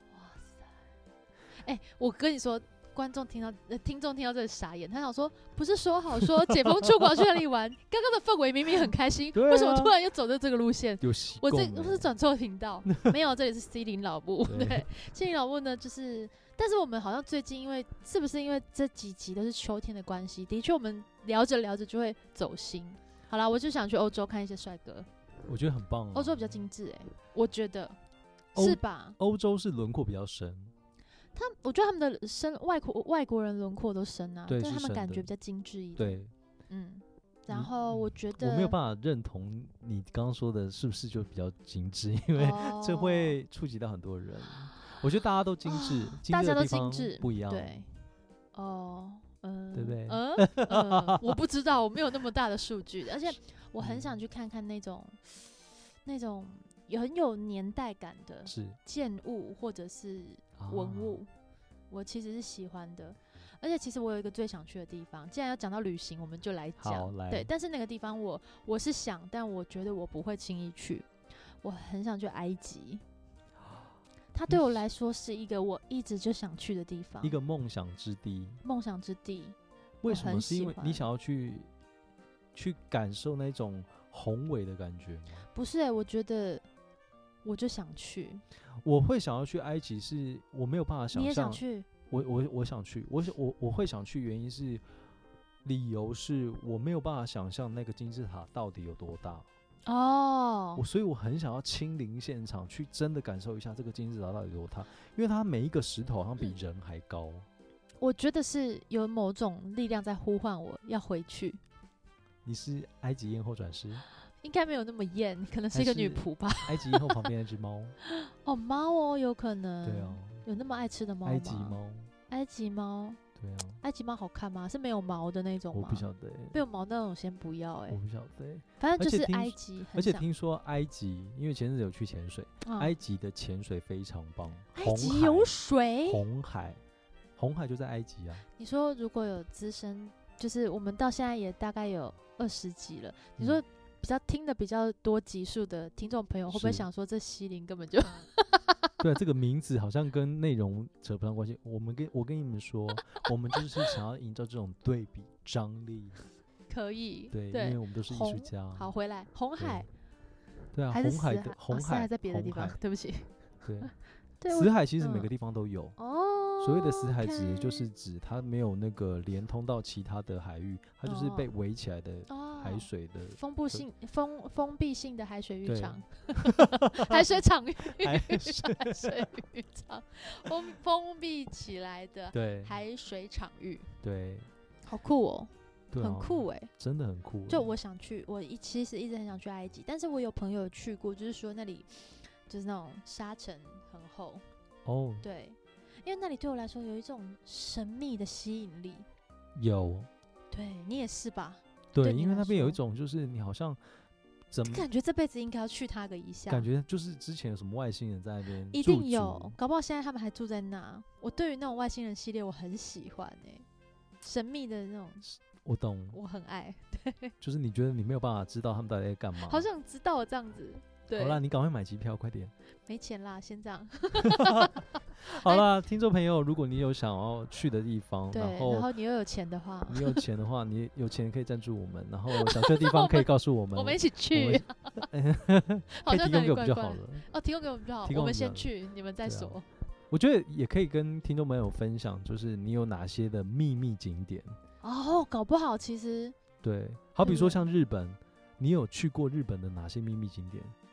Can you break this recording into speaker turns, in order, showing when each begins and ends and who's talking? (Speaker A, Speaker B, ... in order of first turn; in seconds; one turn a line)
Speaker A: 0.1-0.8
Speaker A: 1.6-25.1
Speaker B: 6.5-7.2
Speaker B: 9.3-9.9
Speaker B: 11.0-12.1
Speaker B: 12.9-13.1
Speaker B: 14.5-14.9
Speaker B: 25.5-26.6
Speaker A: 26.1-28.0
Speaker A: 28.6-29.2
Speaker B: 28.6-30.7
Speaker A: 31.4-38.8
Speaker B: 34.5-35.3
Speaker B: 36.0-36.3
Speaker B: 37.5-47.8
Speaker A: 42.4-43.4
Speaker A: 45.7-47.9
Speaker A: 48.5-61.3
Speaker B: 49.8-51.4
Speaker B: 53.8-54.2
Speaker B: 58.5-58.8
Speaker B: 60.6-61.2
Speaker A: 61.9-71.1
Speaker B: 66.8-67.5
Speaker A: 71.6-73.0
Speaker A: 74.3-77.4
Speaker B: 77.2-78.6
Speaker A: 78.6-81.1
Speaker B: 80.0-81.7
Speaker B: 82.5-85.5
Speaker A: 85.5-86.6
Speaker A: 87.5-88.4
Speaker B: 88.8-94.8
Speaker A: 91.1-91.9
Speaker B: 95.6-99.5
Speaker A: 99.9-100.8
Speaker B: 100.8-107.5
Speaker A: 108.0-111.6
Speaker B: 112.4-114.0
Speaker A: 114.4-117.3
Speaker B: 115.7-118.0
Speaker A: 118.0-123.2
Speaker B: 119.8-120.5
Speaker B: 121.2-122.1
Speaker B: 123.4-123.8
Speaker A: 123.8-128.0
Speaker B: 125.7-126.6
Speaker B: 127.9-135.5
Speaker A: 128.8-130.3
Speaker A: 132.6-132.9
Speaker A: 134.8-136.2
Speaker B: 136.1-136.8
Speaker B: 137.4-138.4
Speaker A: 138.6-148.9
Speaker B: 146.5-146.9
Speaker B: 149.0-156.2
Speaker A: 156.7-159.9
Speaker B: 157.3-158.9
Speaker B: 159.6-159.9
Speaker B: 160.7-162.8
Speaker A: 160.9-163.3
Speaker B: 163.6-163.9
Speaker A: 164.4-165.3
Speaker B: 164.5-166.0
Speaker A: 166.0-167.8
Speaker B: 166.6-173.9
Speaker A: 171.1-171.5
Speaker A: 172.3-183.9
Speaker B: 175.7-179.3
Speaker B: 182.3-182.8
Speaker B: 184.0-184.5
Speaker A: 184.9-186.7
Speaker B: 185.9-187.7
Speaker A: 187.5-194.4
Speaker B: 194.9-195.2
Speaker A: 195.2-199.1
Speaker B: 199.6-200.1
Speaker A: 200.5-202.8
Speaker B: 201.9-203.8
Speaker B: 204.5-204.8
Speaker A: 204.7-206.7
Speaker B: 206.5-209.6
Speaker A: 208.7-213.7
Speaker A: 214.2-215.2
Speaker B: 215.2-216.2
Speaker A: 216.1-217.3
Speaker B: 217.4-219.7
Speaker A: 219.4-221.4
Speaker B: 221.1-222.5
Speaker A: 222.9-225.7
Speaker B: 224.2-228.9
Speaker A: 228.3-230.2
Speaker B: 229.9-237.3
Speaker A: 232.3-235.0
Speaker A: 235.9-239.7
Speaker B: 238.1-238.7
Speaker B: 239.2-244.6
Speaker A: 244.8-246.4
Speaker B: 246.6-250.8
Speaker A: 247.2-247.6